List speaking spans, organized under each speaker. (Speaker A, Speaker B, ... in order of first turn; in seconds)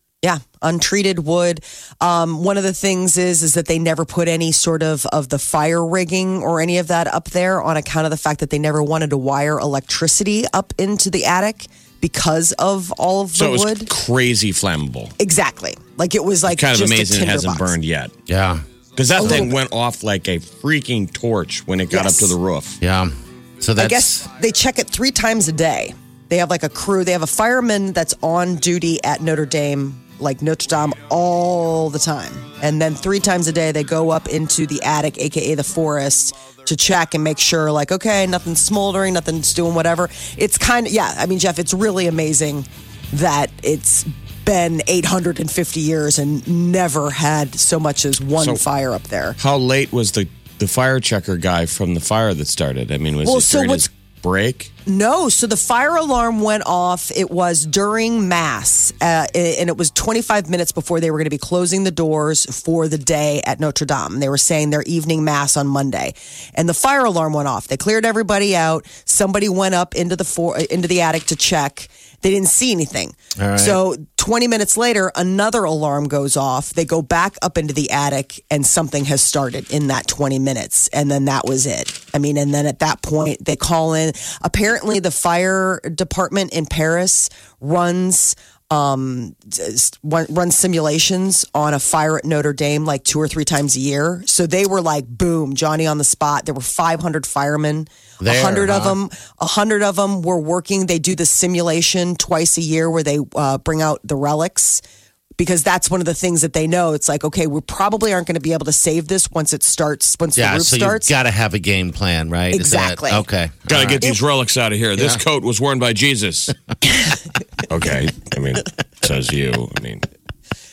Speaker A: 0.2-13.9, 15.2-17.7, 19.2-19.6, 21.9-22.4, 23.8-49.4, 53.2-53.9, 54.9-104.8, 105.4-111.1, 112.5-113.2
Speaker B: 13.3-15.1, 16.5-18.1, 18.9-22.8, 49.4-54.7, 113.7-116.5, 117.6-120.0
Speaker C: 18.3-18.6, 19.2-19.5, 22.8-24.3, 73.4-73.8, 98.2-99.0, 110.3-114.0, 115.0-115.2